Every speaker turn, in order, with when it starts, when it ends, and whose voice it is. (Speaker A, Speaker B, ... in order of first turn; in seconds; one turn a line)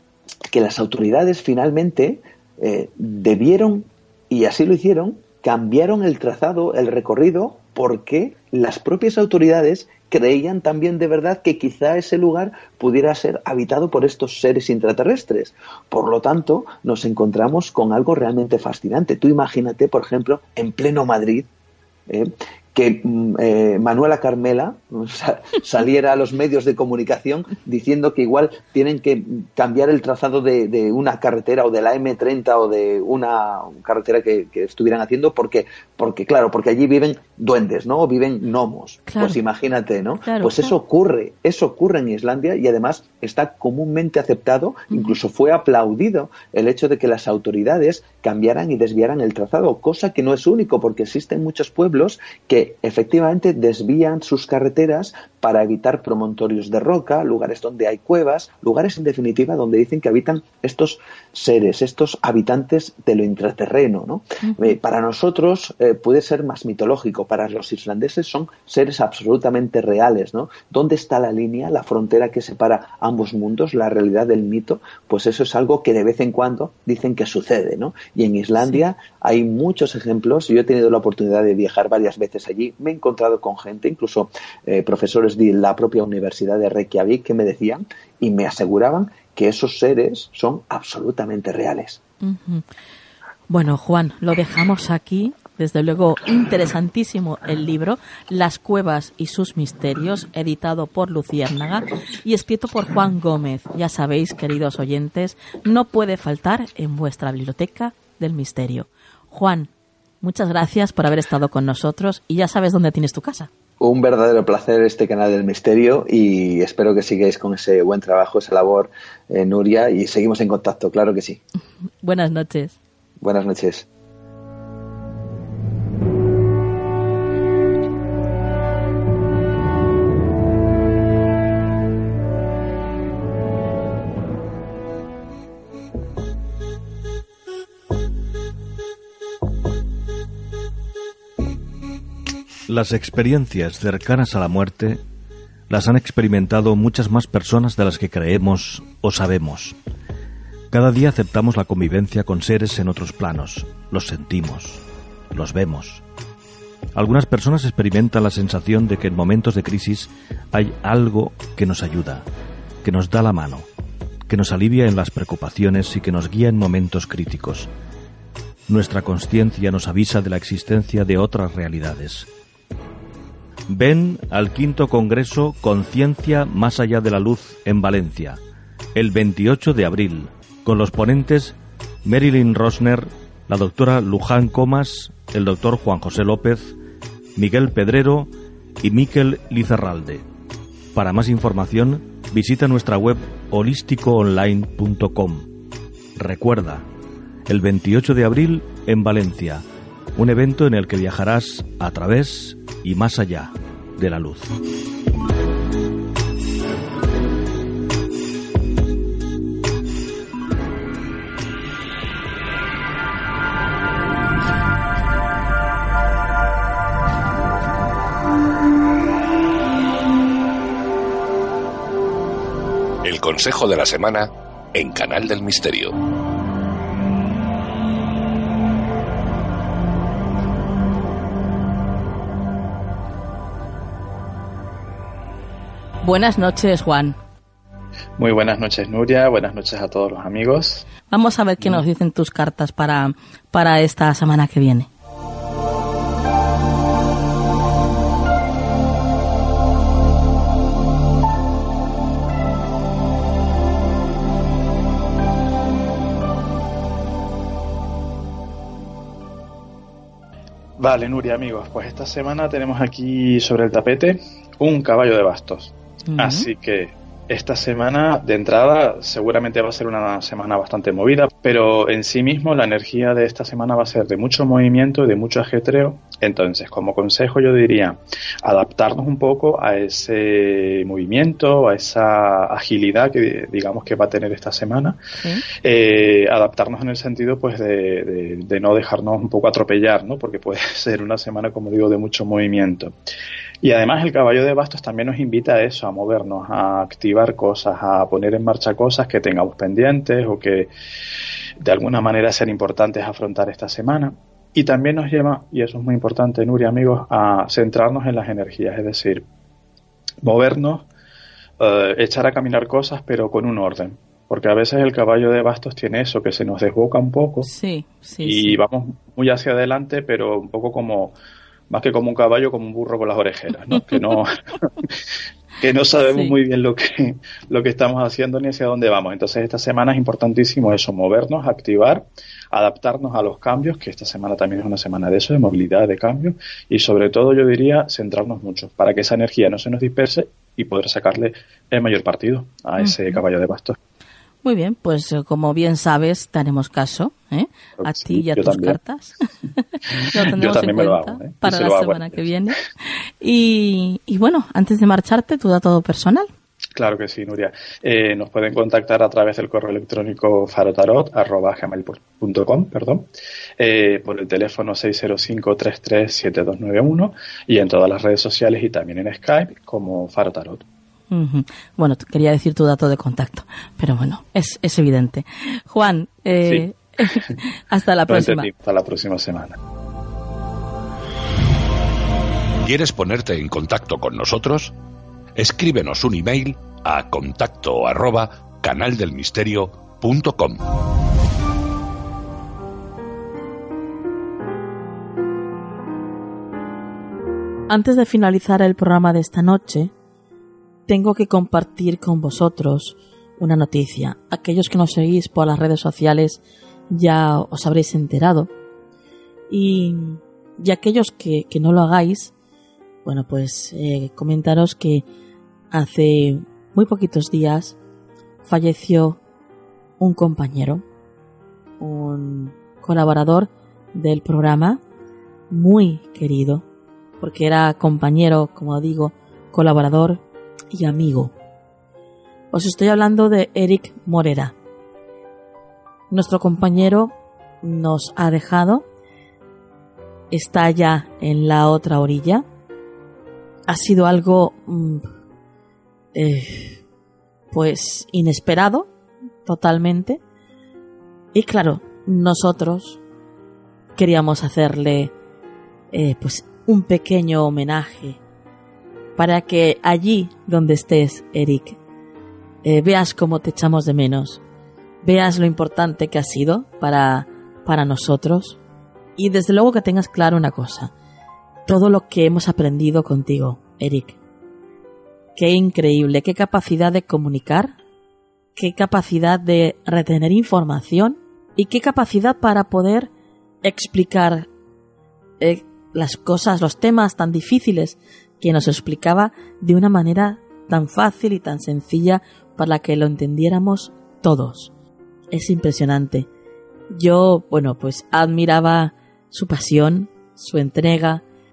Speaker A: 0.5-21.5
Speaker A: 22.1-92.0
Speaker B: 39.1-39.4
Speaker B: 40.2-40.7
Speaker B: 44.9-45.2
Speaker B: 64.4-64.8
Speaker B: 92.2-92.6
Speaker B: 93.5-109.7
Speaker B: 110.2-113.5
Speaker A: 113.8-121.4
Speaker B: 122.0-122.8
Speaker A: 123.2-123.9
Speaker C: 142.7-145.0
Speaker C: 145.7-149.8
Speaker C: 150.7-156.0
Speaker C: 156.9-162.3
Speaker C: 162.8-163.7
Speaker C: 164.3-167.7
Speaker C: 168.7-172.3
Speaker C: 173.7-178.4
Speaker C: 178.9-186.8
Speaker C: 187.3-188.3
Speaker C: 188.8-190.2
Speaker C: 190.9-195.5
Speaker C: 196.2-196.8
Speaker C: 197.5-199.6
Speaker C: 200.2-204.5
Speaker D: 223.0-225.9
Speaker B: 236.0-237.2
Speaker E: 238.2-240.8
Speaker B: 241.1-244.9
Speaker E: 260.8-285.0
Speaker B: 266.1-266.5
Speaker B: 285.2-285.4
Speaker E: 285.6-292.9
Speaker E: 293.6-300.7
Speaker E: 301.6-309.3
Speaker E: 310.2-310.9
Speaker E: 311.6-317.5
Speaker B: 317.4-318.6
Speaker E: 318.2-321.1
Speaker E: 321.7-324.3
Speaker E: 325.6-343.8
Speaker B: 326.1-326.4
Speaker B: 342.8-343.2
Speaker B: 344.4-356.3
Speaker E: 347.8-348.8
Speaker E: 349.9-352.5
Speaker E: 356.7-370.6
Speaker B: 371.1-378.5
Speaker E: 378.1-379.6
Speaker D: 382.6-384.8
Speaker D: 385.4-390.6
Speaker B: 397.7-399.9
Speaker B: 400.9-408.5
Speaker B: 409.5-412.3
Speaker B: 413.0-415.0
Speaker B: 415.7-417.8
Speaker B: 418.4-419.2
Speaker B: 420.0-420.8
Speaker B: 421.8-424.8
Speaker B: 425.5-426.6
Speaker B: 427.2-431.3
Speaker B: 432.5-434.5
Speaker B: 436.1-438.8
Speaker B: 440.3-442.4
Speaker B: 443.7-445.1
Speaker B: 446.1-446.8
Speaker B: 447.5-448.9
Speaker B: 449.4-450.2
Speaker B: 451.3-453.0
Speaker B: 453.9-455.1
Speaker B: 455.9-458.2
Speaker B: 459.1-461.8
Speaker B: 462.6-464.4
Speaker B: 465.0-468.6
Speaker B: 469.2-470.9
Speaker B: 471.7-474.2
Speaker B: 475.4-477.7
Speaker B: 478.6-483.1
Speaker B: 483.6-484.5
Speaker B: 485.4-494.7
Speaker B: 495.3-496.3
Speaker B: 496.9-501.2